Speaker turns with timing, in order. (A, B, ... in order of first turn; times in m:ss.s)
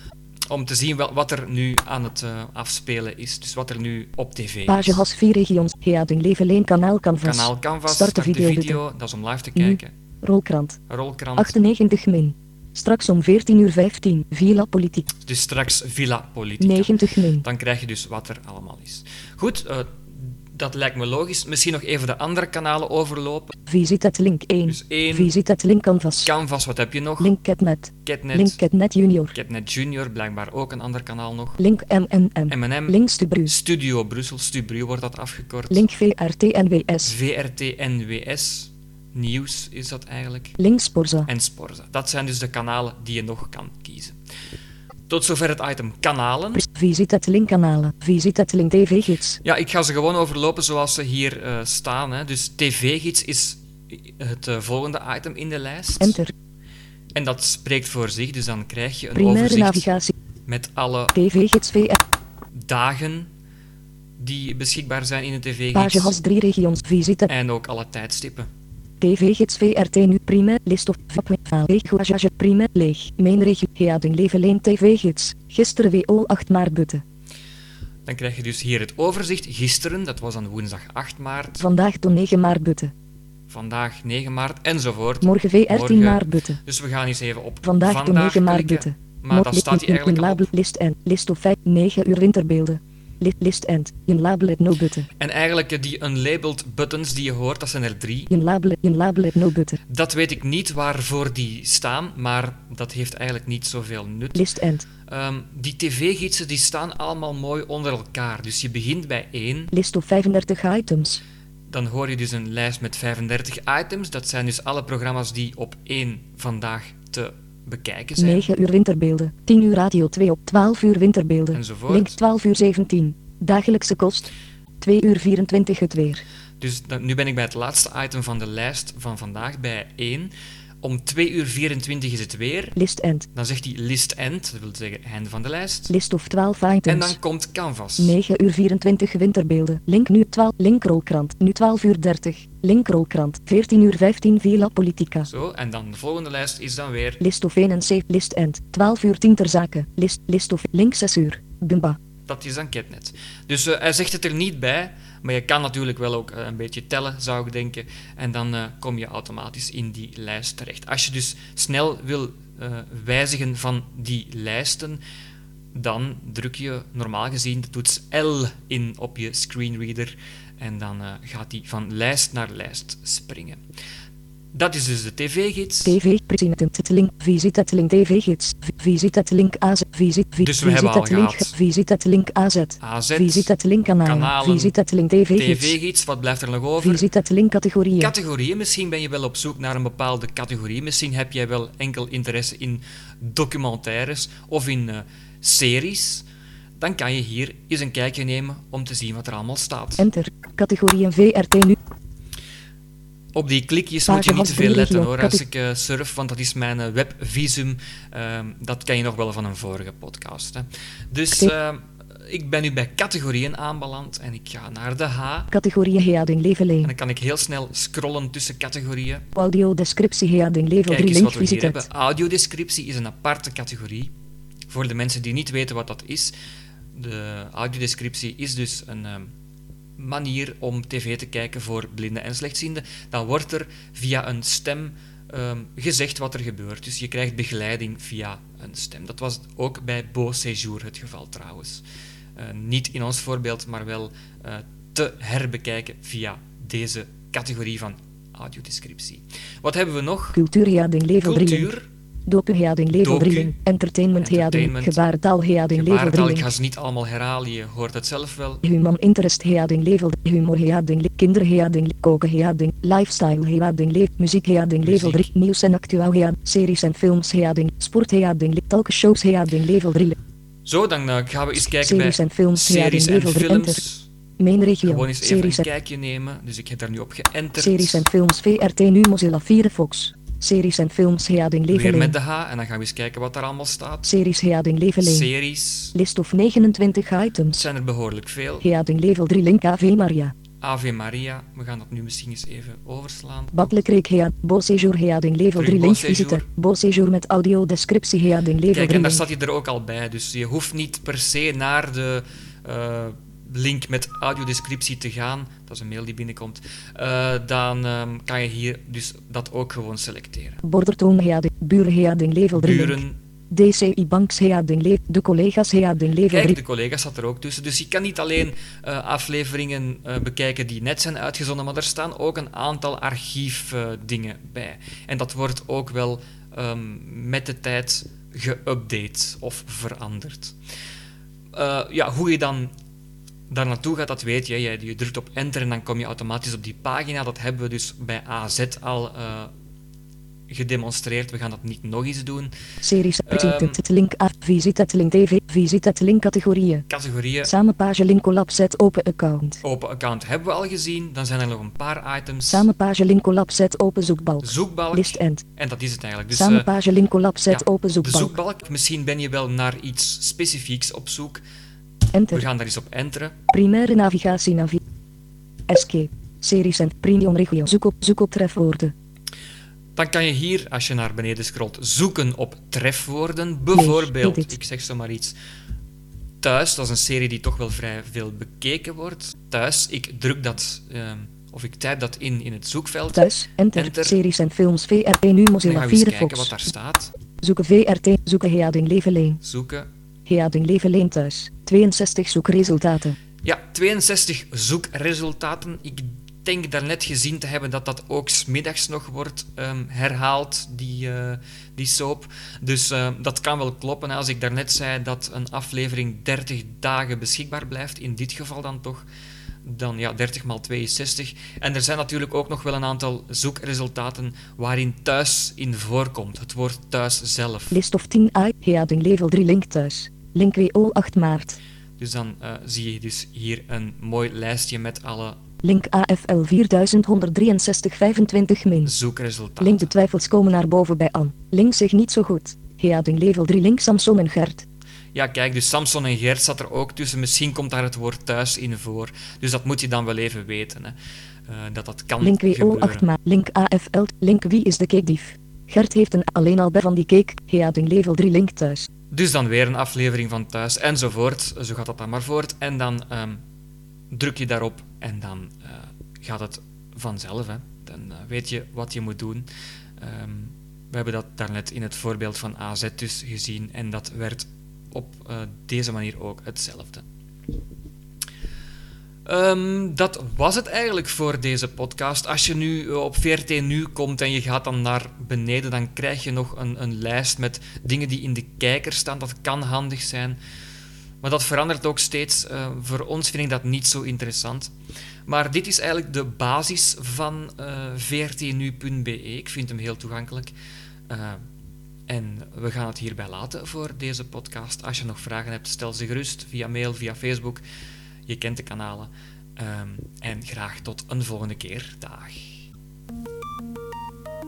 0:00.5-0:05.0 A
0:04.7-0:08.8 B
0:07.2-0:09.9 A
0:09.6-0:10.8 B
0:10.9-0:11.6 A
0:11.4-0:15.1 B
0:15.2-0:23.5 A
0:16.6-0:17.4 B
0:23.7-0:26.3 B
0:24.6-0:25.4 A
0:26.2-0:27.4 A
0:27.2-0:29.4 B
0:28.0-0:28.6 A
0:29.3-0:31.6 A
0:31.6-0:33.5 B
0:32.5-0:35.9 A
0:35.7-0:37.1 B
0:37.0-0:40.6 A
0:40.6-0:41.3 B
0:41.3-0:44.2 A
0:45.1-0:46.6 A
0:46.5-0:49.4 B
0:49.4-0:56.2 A
0:56.0-0:56.3 B
0:57.1-0:59.9 A
0:59.1-1:00.1 B
1:00.4-1:01.1 A
1:01.1-1:02.0 B
1:02.5-1:03.3 A
1:04.2-1:06.2 A
1:05.8-1:07.3 B
1:07.3-1:08.5 A
1:09.0-1:17.0 B
1:18.0-1:21.6 A
1:21.6-1:22.9 B
1:23.5-1:30.5 A
1:25.2-1:26.6 B
1:27.6-1:35.1 B
1:35.2-1:38.3 A
1:38.3-1:39.8 B
1:39.9-1:44.4 A
1:44.3-1:44.9 B
1:45.1-1:49.7 A
1:49.7-1:51.2 B
1:51.7-1:58.5 A
1:58.2-2:06.2 B
2:01.5-2:02.2 A
2:06.6-2:12.8 A
2:12.8-2:13.3 B
2:13.4-2:15.9 A
2:15.9-2:17.2 B
2:16.9-2:18.2 A
2:18.0-2:25.3 B
2:25.2-2:27.2 A
2:27.2-2:32.0 B
2:32.3-2:45.0 A
2:45.7-2:53.6 A
2:54.5-2:56.0 A
2:55.8-3:05.8 B
3:00.4-3:01.5 A
3:02.8-3:03.5 A
3:04.0-3:04.8 A
3:05.4-3:07.1 A
3:06.8-3:08.1 B
3:08.0-3:16.2 A
3:16.8-3:20.0 A
3:20.0-3:21.8 B
3:23.3-3:35.5 A
3:24.0-3:25.4 B
3:35.5-3:36.9 B
3:36.8-3:39.2 A
3:39.4-3:41.9 B
3:40.9-3:44.1 A
3:44.7-3:46.3 A
3:46.9-3:49.3 A
3:50.0-4:01.8 A
4:02.4-4:10.4 A
4:10.3-4:11.7 B
4:11.2-4:11.9 A
4:12.2-4:16.5 B
4:13.0-4:13.6 A
4:14.2-4:15.0 A
4:15.7-4:18.6 A
4:18.6-4:30.2 B
4:24.8-4:25.2 A
4:30.6-4:34.1 A
4:31.6-4:33.8 B
4:34.4-4:35.7 B
4:34.8-4:38.0 A
4:37.6-4:42.1 B
4:41.7-4:44.1 A
4:44.0-4:45.3 B
4:45.0-4:45.9 A
4:45.9-4:47.7 B
4:47.5-4:48.6 A
4:48.6-4:50.3 B
4:50.6-4:53.8 A
4:53.5-4:59.2 B
4:55.6-4:56.4 A
4:58.7-5:10.6 A
5:10.6-5:16.6 B
5:12.5-5:13.1 A
5:16.3-5:30.6 A
5:31.5-5:32.7 A
5:33.5-5:39.5 A
5:40.5-5:42.5 A
5:42.8-5:46.9 B
5:43.3-5:43.8 A
5:46.9-5:47.5 A
5:47.4-5:49.6 B
5:49.6-5:52.7 A
5:52.5-5:55.4 B
5:54.4-5:56.7 A
5:56.3-5:58.4 B
5:57.5-6:01.4 A
6:02.1-6:02.4 B
6:02.3-6:03.4 A
6:03.5-6:04.8 B
6:05.7-6:08.9 B
6:10.0-6:15.4 A
6:13.7-6:14.5 B
6:16.4-6:24.2 A
6:23.1-6:26.6 B
6:25.6-6:27.1 A
6:27.4-6:29.4 B
6:29.4-6:29.9 A
6:30.2-6:33.2 B
6:33.4-6:49.1 A
6:49.6-6:57.8 A
6:57.7-7:01.6 B
7:02.0-7:05.4 A
7:05.6-7:08.9 B
7:08.8-7:09.9 A
7:09.6-7:14.6 B
7:15.1-7:23.0 A
7:22.2-7:28.9 B
7:29.1-7:33.4 A
7:34.1-7:39.5 A
7:40.0-7:47.0 A
7:49.2-8:00.4 A
8:01.2-8:04.7 A
8:05.3-8:10.5 A
8:11.1-8:11.4 A
8:12.1-8:17.6 A
8:18.3-8:22.4 A